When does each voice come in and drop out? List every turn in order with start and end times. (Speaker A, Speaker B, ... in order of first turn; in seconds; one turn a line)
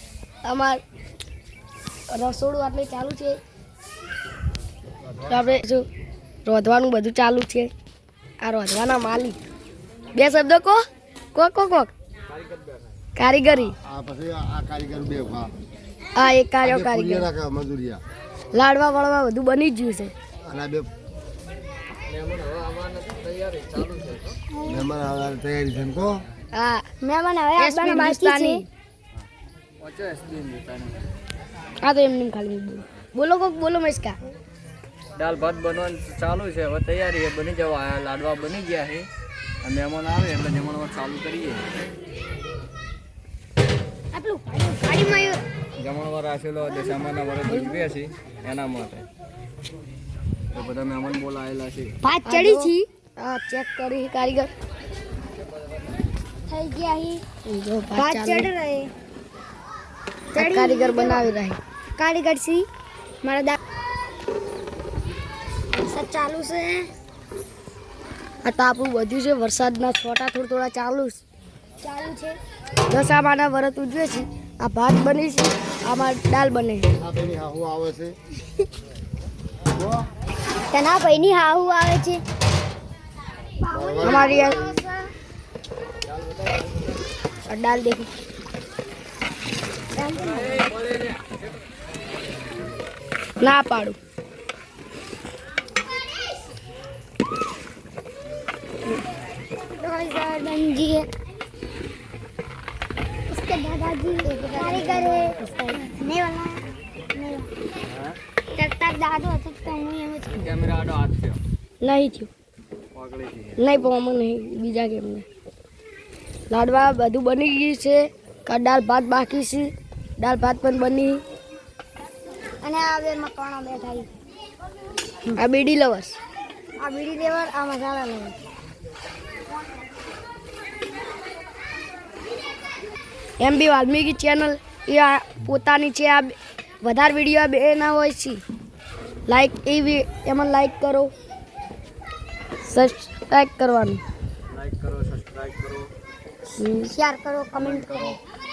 Speaker A: 0.4-0.8
Speaker A: 2.1-3.4
Speaker A: 5.2-5.8
Speaker A: 6.5-7.7
Speaker A: 8.4-9.4
Speaker A: 10.1-10.8
Speaker A: 11.3-11.9
Speaker B: 12.3-13.0
Speaker A: 13.2-13.8
Speaker C: 13.8-15.5
Speaker A: 16.1-17.3
Speaker C: 16.6-18.0
Speaker A: 18.5-20.1
Speaker C: 20.4-20.9
Speaker B: 22.1-24.4
Speaker C: 24.6-26.2
Speaker A: 26.5-26.9
Speaker D: 27.0-28.6
Speaker A: 27.6-28.6
Speaker B: 29.8-31.1
Speaker A: 31.8-34.2
Speaker B: 35.1-39.1
Speaker B: 39.6-41.6
Speaker D: 44.1-45.4
Speaker B: 45.8-49.1
Speaker A: 47.5-47.8
Speaker B: 50.5-52.0
Speaker D: 52.0-52.9
Speaker A: 52.2-54.5
Speaker D: 56.5-57.2
Speaker A: 57.5-58.5
Speaker D: 57.9-58.9
Speaker D: 60.3-61.3
Speaker A: 60.3-61.6
Speaker D: 62.0-62.7
Speaker D: 63.2-63.6
Speaker D: 65.7-66.9
Speaker A: 68.4-71.2
Speaker D: 71.8-72.4
Speaker A: 72.9-76.9
Speaker C: 77.0-78.2
Speaker C: 79.7-80.1
Speaker D: 80.7-82.2
Speaker D: 83.6-85.1
Speaker C: 83.7-84.8
Speaker A: 84.0-84.6
Speaker A: 87.5-88.1
Speaker D: 89.9-90.7
Speaker A: 93.4-94.0
Speaker D: 99.8-101.1
Speaker D: 103.3-107.5
Speaker A: 104.6-105.0
Speaker D: 108.5-110.5
Speaker B: 110.3-111.4
Speaker A: 111.8-112.3
Speaker B: 112.9-113.6
Speaker A: 113.6-115.2
Speaker A: 116.5-121.2
Speaker D: 122.6-124.1
Speaker A: 125.3-126.2
Speaker D: 126.8-128.4
Speaker A: 133.4-138.4
Speaker A: 139.3-141.1
Speaker A: 142.6-144.0
Speaker B: 144.5-145.9
Speaker A: 146.6-146.9
Speaker D: 146.9-148.2
Speaker B: 147.5-148.2